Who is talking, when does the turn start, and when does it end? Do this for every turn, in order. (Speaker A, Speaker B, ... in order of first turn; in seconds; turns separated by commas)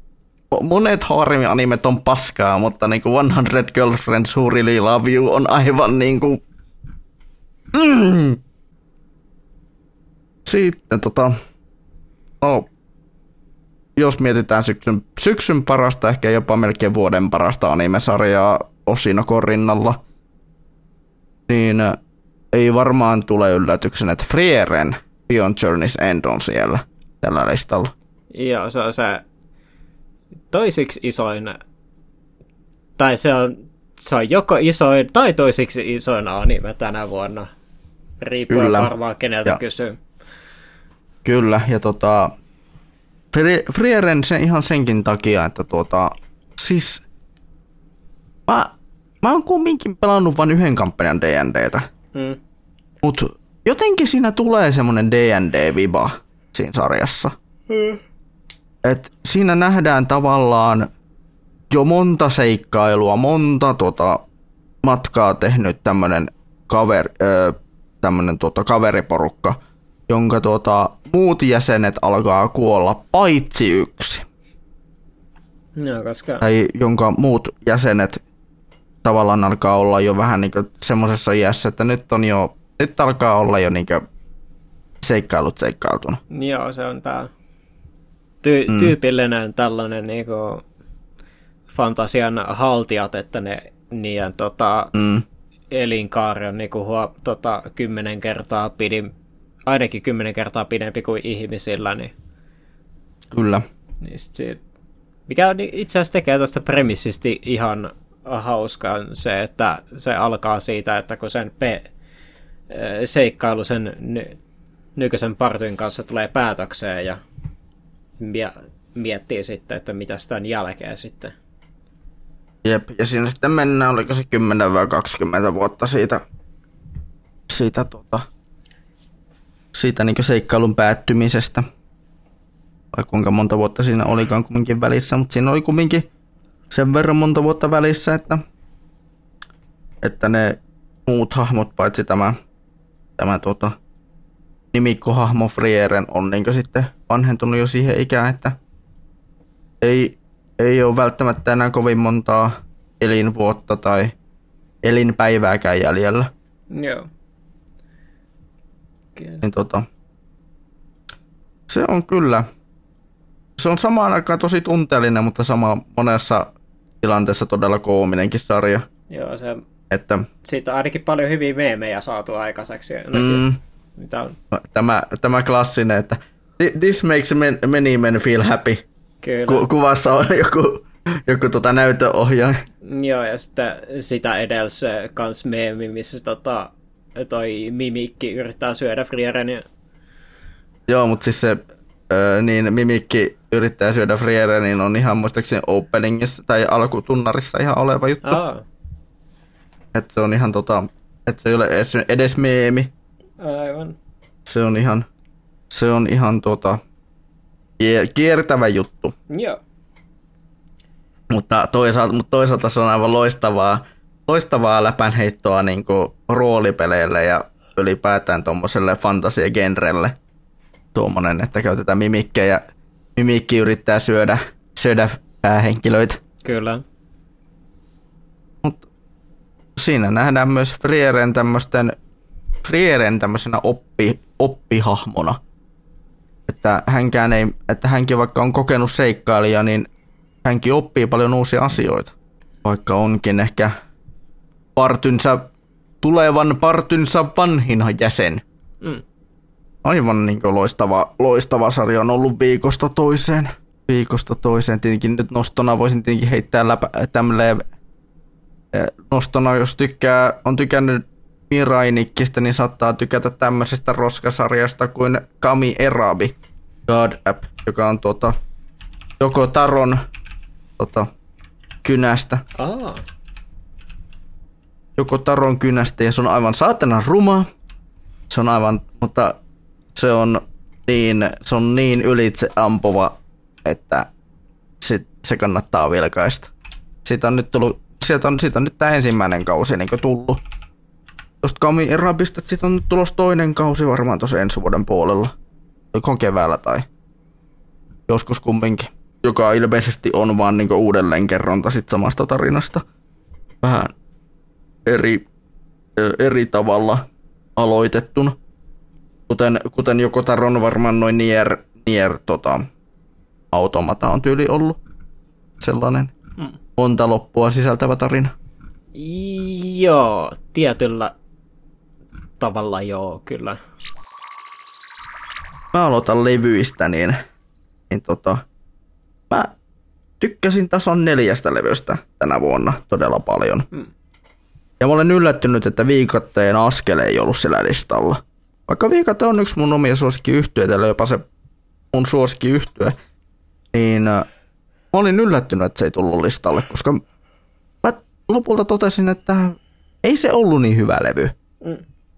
Speaker A: 0.5-6.4, Speaker A: 7.7-8.4, Speaker A: 10.4-11.3, Speaker A: 12.4-12.7, Speaker A: 13.9-20.0, Speaker A: 21.5-22.0, Speaker A: 22.5-27.9, Speaker B: 28.3-29.2, Speaker B: 30.5-31.6, Speaker B: 33.0-37.5, Speaker B: 38.2-40.0, Speaker A: 38.5-38.9, Speaker A: 41.2-42.4, Speaker A: 43.3-47.0, Speaker A: 48.5-51.9, Speaker A: 53.0-57.3, Speaker B: 57.7-58.0, Speaker A: 58.8-60.9, Speaker A: 61.7-64.2, Speaker A: 64.8-69.6, Speaker A: 70.1-74.2, Speaker B: 75.8-76.5, Speaker A: 76.4-78.2, Speaker A: 79.0-84.0, Speaker A: 85.0-86.2, Speaker B: 86.3-87.3, Speaker B: 88.4-90.6, Speaker A: 88.7-88.9, Speaker B: 91.7-94.9, Speaker A: 94.9-95.2, Speaker B: 95.7-99.1, Speaker B: 99.7-102.1, Speaker A: 103.3-103.6, Speaker B: 104.0-104.6, Speaker B: 105.3-111.9, Speaker B: 112.7-114.3, Speaker B: 115.0-117.2, Speaker B: 118.2-121.3, Speaker A: 122.6-126.2, Speaker A: 127.5-128.3, Speaker A: 129.7-131.7, Speaker A: 132.9-136.1, Speaker A: 136.7-138.4, Speaker A: 140.0-142.3, Speaker A: 143.2-143.8, Speaker A: 144.7-148.6, Speaker A: 149.8-154.1, Speaker A: 154.8-156.3, Speaker B: 156.7-157.1, Speaker B: 159.2-159.4, Speaker A: 159.4-159.8, Speaker A: 161.7-162.5, Speaker A: 163.6-168.8, Speaker B: 169.1-169.6, Speaker A: 169.9-170.3, Speaker B: 170.4-173.4, Speaker A: 173.1-173.6, Speaker B: 174.0-174.4, Speaker A: 174.5-178.8, Speaker B: 179.2-179.7, Speaker A: 179.5-182.6, Speaker B: 182.8-189.6, Speaker A: 190.9-198.4, Speaker B: 198.2-198.6, Speaker A: 199.9-202.9, Speaker B: 203.4-203.9, Speaker A: 204.4-205.1, Speaker A: 205.7-206.8, Speaker A: 207.8-209.1, Speaker B: 209.3-209.6, Speaker A: 211.3-220.2, Speaker A: 220.9-222.6, Speaker A: 223.2-226.2, Speaker B: 226.4-226.8, Speaker A: 229.8-231.9, Speaker A: 232.6-235.4, Speaker A: 236.5-239.9, Speaker A: 240.4-243.7, Speaker A: 244.8-248.4, Speaker A: 249.8-257.6, Speaker A: 258.7-266.3, Speaker A: 266.9-268.3, Speaker A: 269.2-270.0, Speaker A: 270.8-271.1, Speaker A: 271.8-272.4, Speaker B: 272.6-273.0, Speaker A: 275.0-277.5, Speaker A: 278.3-279.4, Speaker A: 279.9-284.1, Speaker A: 284.8-286.5, Speaker A: 287.0-290.4, Speaker A: 291.4-295.3, Speaker A: 295.9-296.9, Speaker A: 298.1-302.8, Speaker A: 303.6-303.9, Speaker A: 304.9-305.2, Speaker A: 305.9-308.4, Speaker A: 309.3-312.6, Speaker A: 313.5-314.8, Speaker A: 315.6-316.1, Speaker A: 316.8-318.3, Speaker B: 318.9-321.1, Speaker B: 322.4-323.6, Speaker A: 325.7-327.2, Speaker A: 327.9-328.4, Speaker A: 330.2-333.7, Speaker A: 334.8-341.2, Speaker A: 341.9-342.9, Speaker A: 343.7-344.2, Speaker A: 344.9-347.0, Speaker A: 347.8-351.3